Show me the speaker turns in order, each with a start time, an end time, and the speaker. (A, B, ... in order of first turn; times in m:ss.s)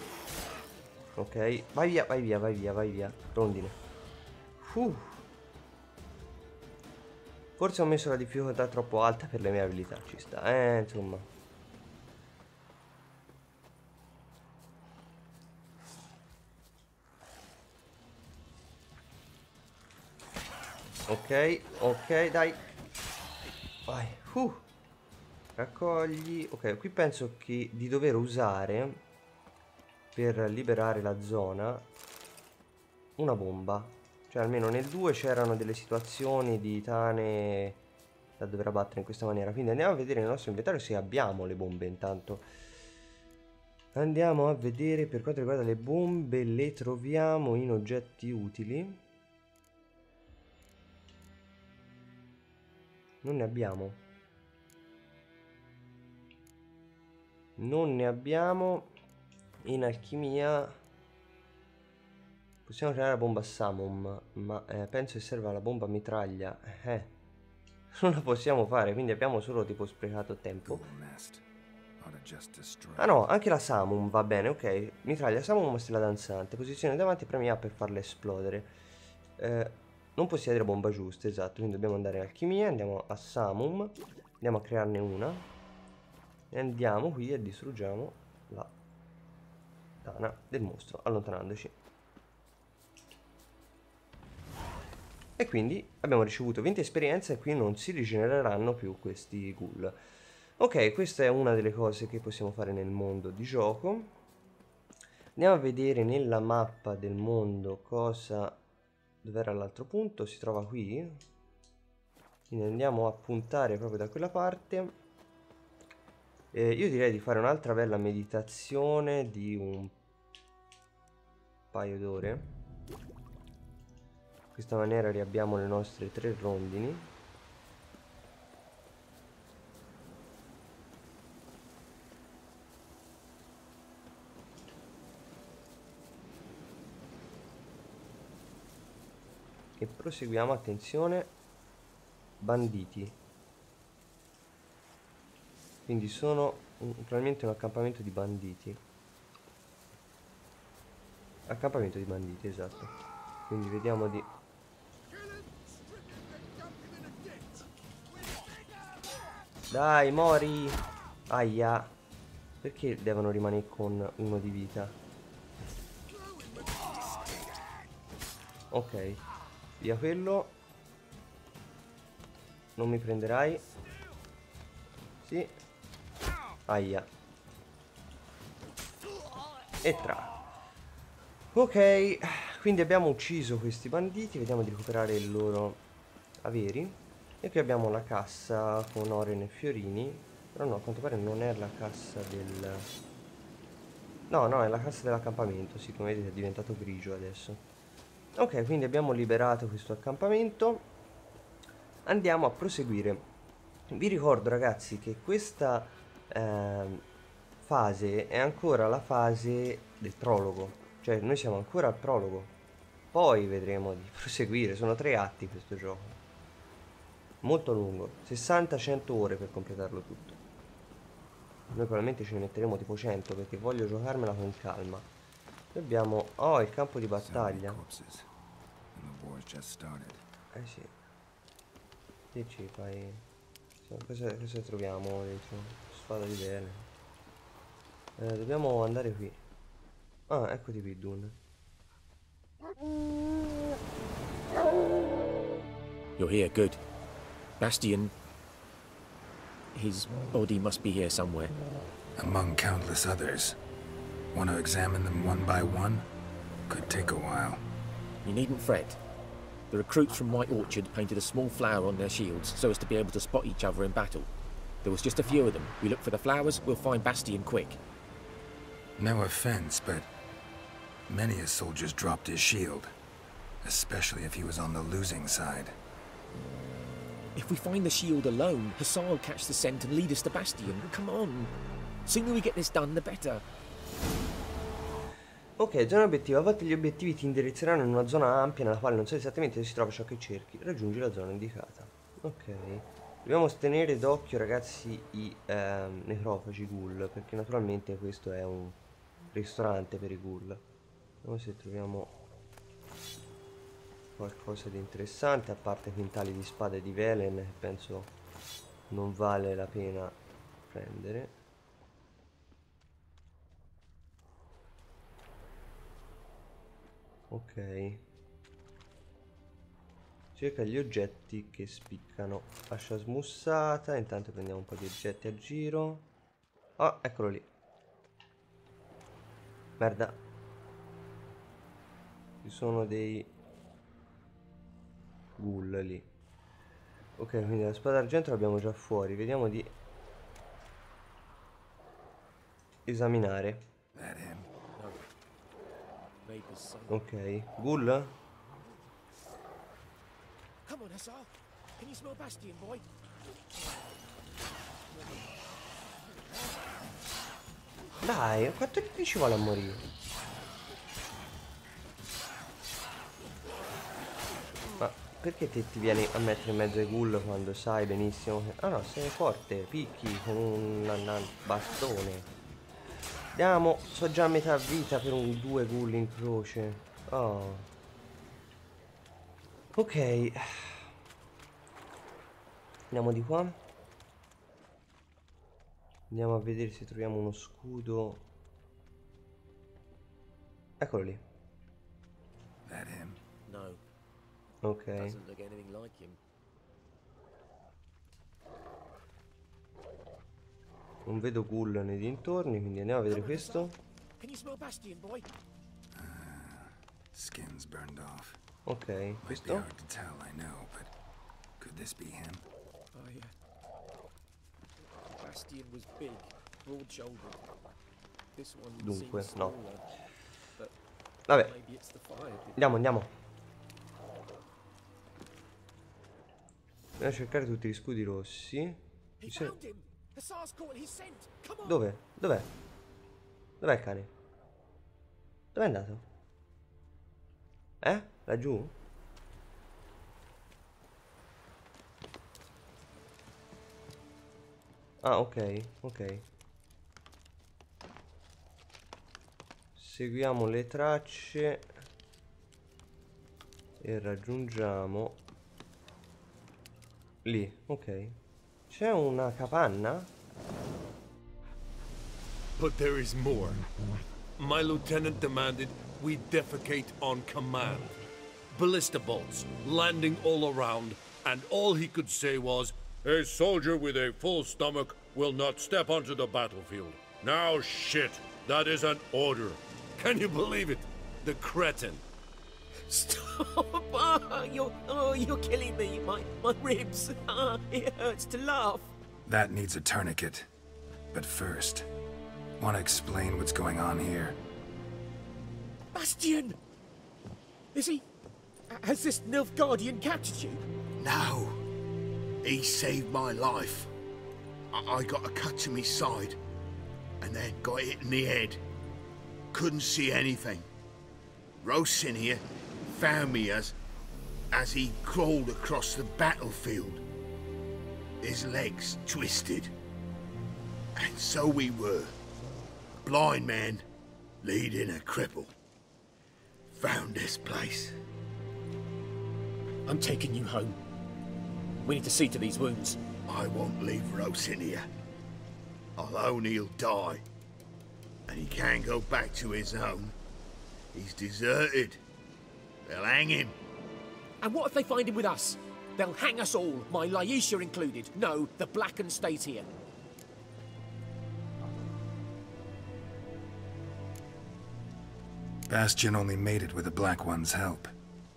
0:01.2-0:03.8 A
0:04.6-0:05.2 A
0:07.6-0:11.3 A
0:21.1-0:22.6 A
0:23.9-0:24.6 A
0:25.6-0:29.0 A
0:30.1-0:31.8 A
0:33.2-0:37.8 A
0:38.4-0:42.4 A
0:43.9-0:49.0 A
0:53.2-0:54.0 A
0:57.6-0:58.9 A
0:59.6-1:00.8 A
1:02.6-1:07.1 A
1:07.9-1:10.8 A
1:10.6-1:11.4 B
1:12.0-1:13.1 B
1:13.0-1:18.7 A
1:19.4-1:25.4 A
1:26.5-1:28.7 A
1:30.0-1:31.8 A
1:35.4-1:40.0 A
1:40.6-1:44.1 A
1:45.4-1:48.6 A
1:49.2-1:51.2 A
1:52.5-1:54.9 A
1:56.5-1:59.9 A
2:01.7-2:02.5 A
2:04.5-2:07.1 A
2:19.8-2:21.3 A
2:22.4-2:23.2 A
2:25.9-2:28.8 A
2:31.5-2:33.0 A
2:33.5-2:34.3 A
2:39.7-2:41.9 A
2:42.6-2:45.0 A
2:46.5-2:46.9 C
2:48.7-2:49.2 A
2:49.8-2:50.6 A
2:52.8-2:53.6 A
2:55.2-2:55.5 A
2:56.7-2:57.1 A
2:59.8-3:00.4 A
3:01.5-3:05.8 A
3:06.4-3:12.9 A
3:14.3-3:17.6 A
3:18.3-3:20.8 A
3:22.0-3:23.2 A
3:23.9-3:27.0 A
3:27.6-3:32.5 A
3:33.1-3:36.2 A
3:37.4-3:40.4 A
3:41.7-3:45.1 A
3:45.7-3:47.8 A
3:47.2-3:48.3 B
3:48.9-3:50.2 B
3:50.5-3:50.9 A
3:52.3-3:53.2 A
3:53.8-3:56.9 A
3:58.2-3:59.4 A
4:00.3-4:01.4 A
4:06.2-4:06.8 D
4:07.6-4:08.1 D
4:09.7-4:11.6 D
4:12.2-4:13.6 B
4:14.3-4:16.1 B
4:16.7-4:17.6 B
4:18.2-4:19.0 D
4:19.7-4:24.3 D
4:24.8-4:27.8 D
4:29.0-4:30.1 B
4:31.1-4:32.9 B
4:33.6-4:35.8 B
4:37.4-4:41.5 D
4:42.0-4:43.4 D
4:45.6-4:58.8 A
4:59.3-5:00.6 A
5:01.2-5:02.1 A
5:04.2-5:08.1 A
5:08.9-5:11.4 A
5:17.3-5:18.0 A
5:20.3-5:26.0 A
5:26.8-5:27.5 A
5:29.8-5:30.2 A
5:32.4-5:33.3 A
5:35.4-5:36.1 A
5:37.2-5:39.7 A
5:42.8-5:43.7 A
5:43.9-5:44.5 B
5:46.2-5:47.0 D
5:46.9-5:48.1 A
5:50.6-5:52.8 D
5:53.5-5:54.0 D
5:54.9-5:55.2 D
5:58.0-5:59.8 A
6:04.8-6:12.3 A
6:13.3-6:17.7 A
6:19.8-6:20.8 A
6:22.9-6:23.6 A
6:26.1-6:28.2 A
6:30.8-6:31.2 A
6:32.6-6:33.2 B
6:33.4-6:33.8 D
6:34.6-6:35.2 A
6:35.0-6:36.2 D
6:41.0-6:43.8 A
6:43.1-6:45.3 D
6:45.9-6:48.4 B
6:48.6-6:49.7 A
6:49.2-6:50.9 B
6:51.6-6:52.4 B
6:52.9-6:53.3 D
6:54.8-6:57.4 D
6:58.3-6:59.8 D
6:58.8-6:59.6 A
7:01.4-7:02.7 D
7:02.6-7:03.1 A
7:07.0-7:09.5 A
7:09.2-7:11.8 D
7:11.6-7:12.5 A
7:13.6-7:14.1 A
7:15.5-7:16.0 A
7:17.8-7:18.7 A
7:25.0-7:26.2 A
7:29.8-7:31.6 A
7:33.8-7:35.2 A
7:37.2-7:38.2 A
7:38.7-7:40.1 A
7:42.6-7:43.6 E
7:44.4-7:48.0 E
7:48.5-8:02.0 E
8:02.9-8:08.9 D
8:09.2-8:10.5 B
8:11.1-8:11.9 B
8:12.6-8:14.4 B
8:15.9-8:16.6 D
8:17.7-8:18.0 D
8:18.7-8:20.6 D
8:21.0-8:21.6 C
8:22.4-8:23.9 C
8:24.7-8:26.4 C
8:27.2-8:28.6 C
8:29.5-8:30.6 C
8:31.6-8:33.7 C
8:34.5-8:37.0 C
8:38.2-8:39.7 C
8:41.0-8:42.1 C
8:43.0-8:43.8 C
8:44.4-8:45.5 C
8:46.7-8:47.9 C
8:49.8-8:50.8 D
8:51.8-8:53.0 D
8:53.2-8:54.9 C
8:56.0-8:57.2 C
8:58.3-9:00.1 C
9:00.9-9:02.0 C
9:02.8-9:03.6 C
9:04.4-9:09.7 D
9:15.7-9:17.9 B